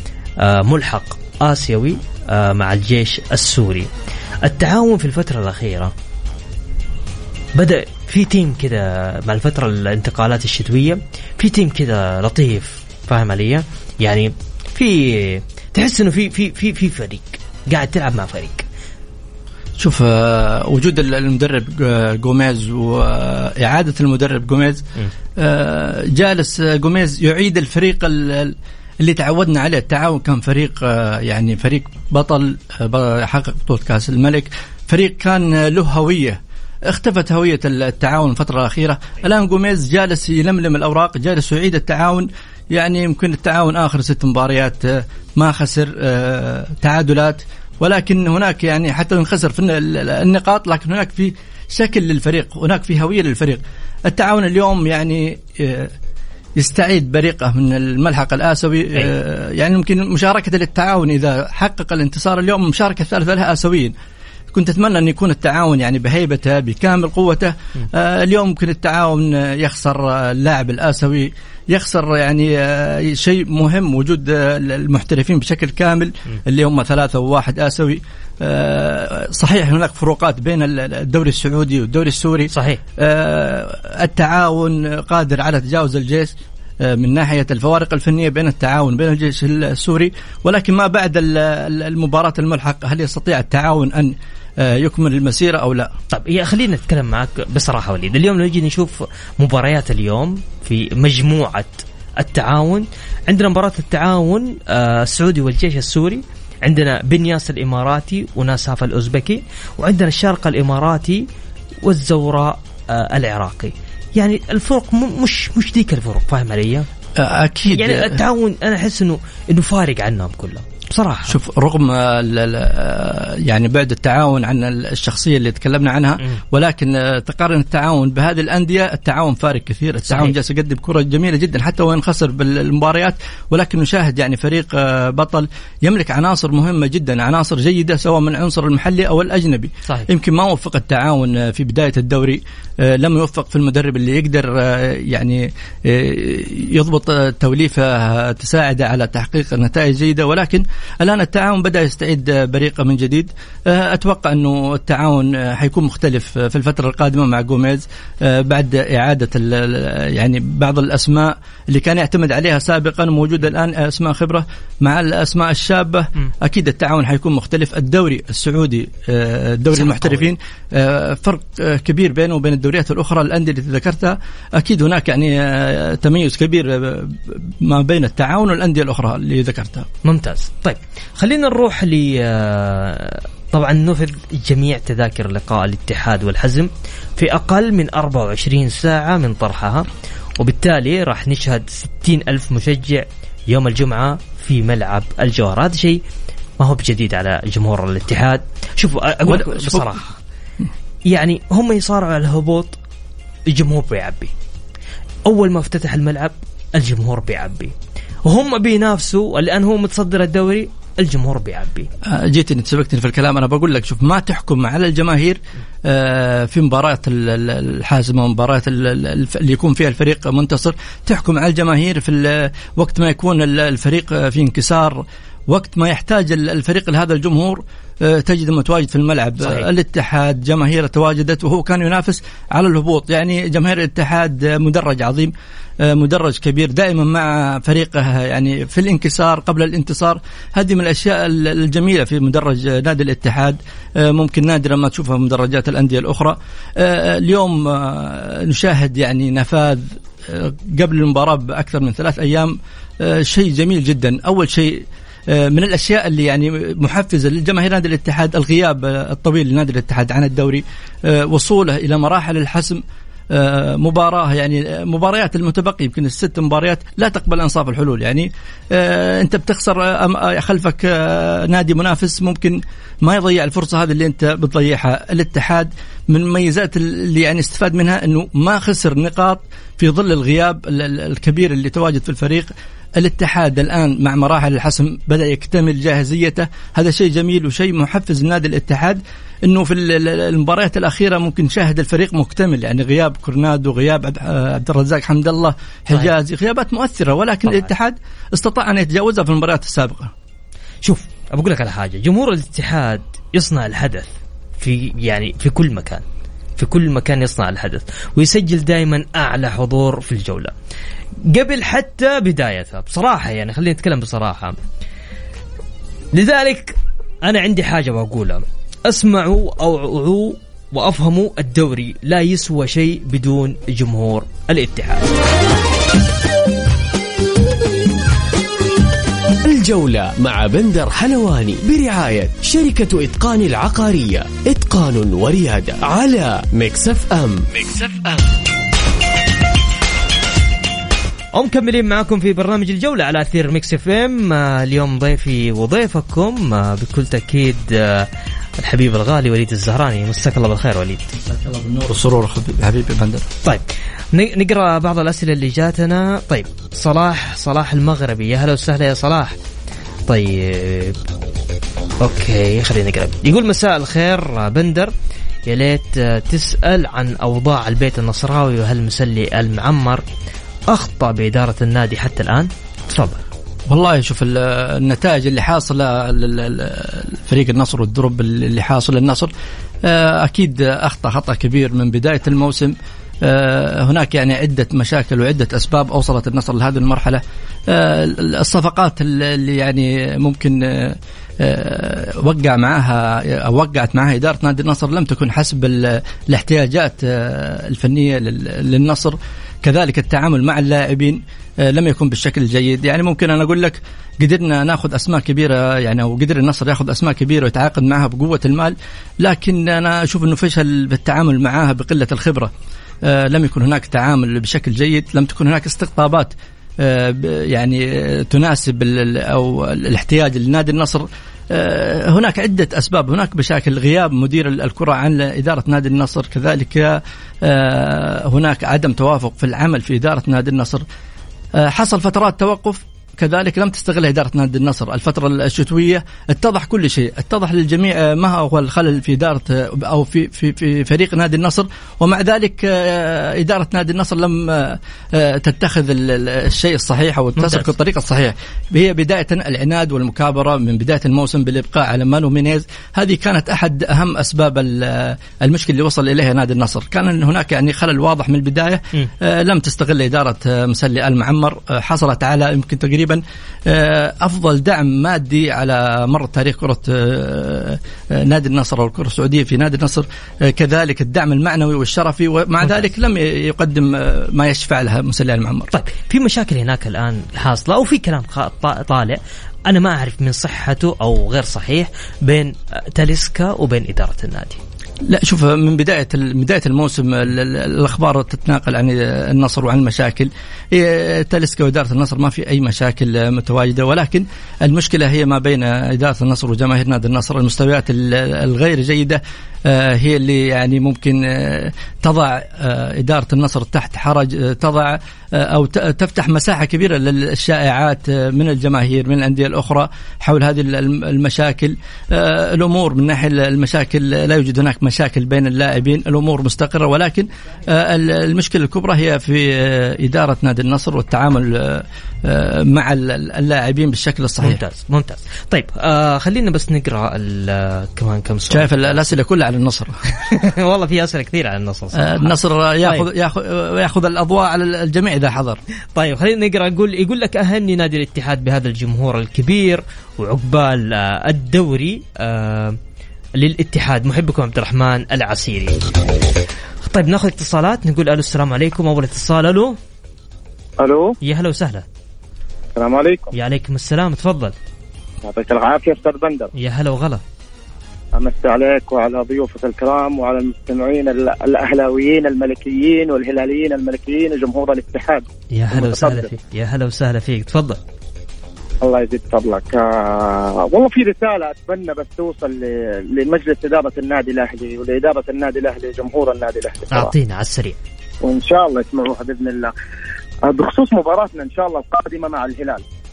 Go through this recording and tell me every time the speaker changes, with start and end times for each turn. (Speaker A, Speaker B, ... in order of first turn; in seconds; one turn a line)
Speaker A: 0.4-3.9
Speaker A: 4.4-5.9
Speaker A: 7.5-18.6
Speaker B: 19.8-24.8
Speaker B: 25.4-55.9
Speaker B: 56.6-63.9
Speaker B: 64.5-95.9
Speaker A: 82.5-82.8
Speaker A: 96.1-111.2
Speaker A: 111.8-116.9
Speaker B: 117.2-118.2
Speaker A: 117.7-121.4
Speaker B: 121.3-179.9
Speaker A: 130.0-130.3
Speaker A: 169.7-170.3
Speaker A: 180.0-189.9
Speaker A: 190.4-196.0
Speaker A: 196.6-200.2
Speaker B: 199.2-199.9
Speaker A: 201.1-202.8
Speaker A: 203.5-204.3
Speaker A: 205.2-207.7
Speaker A: 208.2-211.9
Speaker B: 212.0-300.1
Speaker A: 229.4-229.7
Speaker A: 300.8-306.0
Speaker A: 306.6-310.5
Speaker A: 311.3-314.6
Speaker A: 316.1-325.1
Speaker C: 329.5-338.3
Speaker A: 341.4-348.1
Speaker A: 348.6-351.1
Speaker B: 351.2-353.2
Speaker A: 353.4-359.4
Speaker A: 360.1-361.0
Speaker A: 362.0-364.9
Speaker A: 365.5-370.0
Speaker A: 370.7-373.2
Speaker B: 373.7-379.3
Speaker B: 379.8-412.5
Speaker B: 413.0-430.8
Speaker B: 431.6-475.7
Speaker A: 447.4-447.7
Speaker A: 475.7-484.6
Speaker B: 485.1-524.6
Speaker A: 524.4-529.0
Speaker B: 528.5-530.0
Speaker A: 530.2-533.1
Speaker B: 532.0-535.6
Speaker A: 535.9-542.8
Speaker A: 543.4-545.8
Speaker A: 546.8-549.8
Speaker D: 550.8-551.1
Speaker A: 551.2-551.8
Speaker D: 552.8-553.3
Speaker A: 553.3-554.5
Speaker D: 555.2-556.5
Speaker A: 556.5-557.2
Speaker D: 558.1-566.3
Speaker A: 565.5-567.8
Speaker D: 568.8-577.1
Speaker A: 576.9-577.8
Speaker D: 578.2-579.7
Speaker D: 580.4-582.8